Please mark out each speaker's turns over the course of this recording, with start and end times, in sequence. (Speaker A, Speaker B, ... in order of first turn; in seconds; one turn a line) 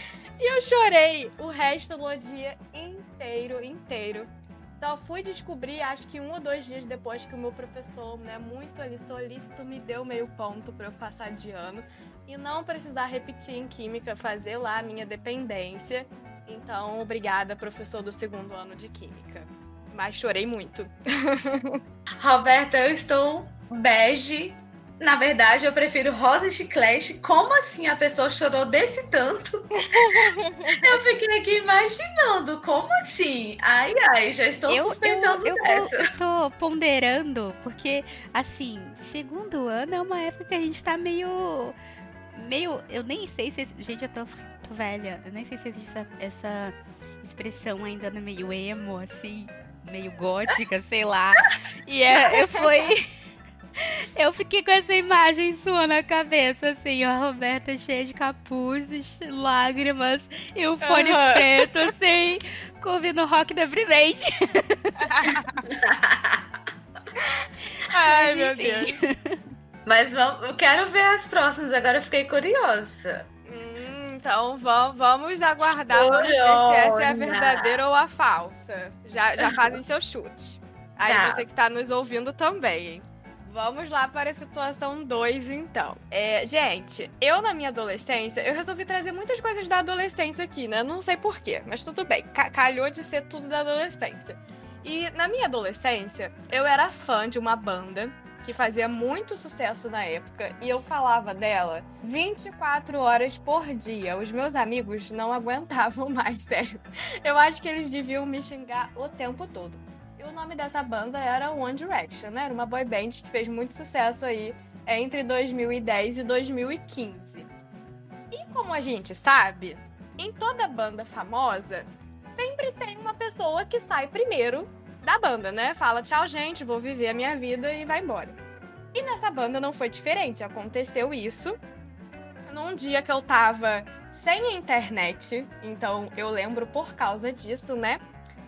Speaker A: 0.4-21.8
Speaker B: 22.2-36.1
Speaker A: 29.8-31.0
Speaker C: 34.7-41.7
Speaker C: 42.3-53.1
Speaker C: 53.8-65.1
Speaker A: 60.8-61.7
Speaker A: 65.0-65.6
Speaker B: 65.7-66.4
Speaker A: 67.4-69.0
Speaker C: 68.0-69.4
Speaker B: 69.8-73.2
Speaker A: 73.5-117.5
Speaker B: 75.9-77.8
Speaker B: 81.0-81.4
Speaker A: 118.3-128.4
Speaker A: 128.9-131.6
Speaker A: 132.5-138.0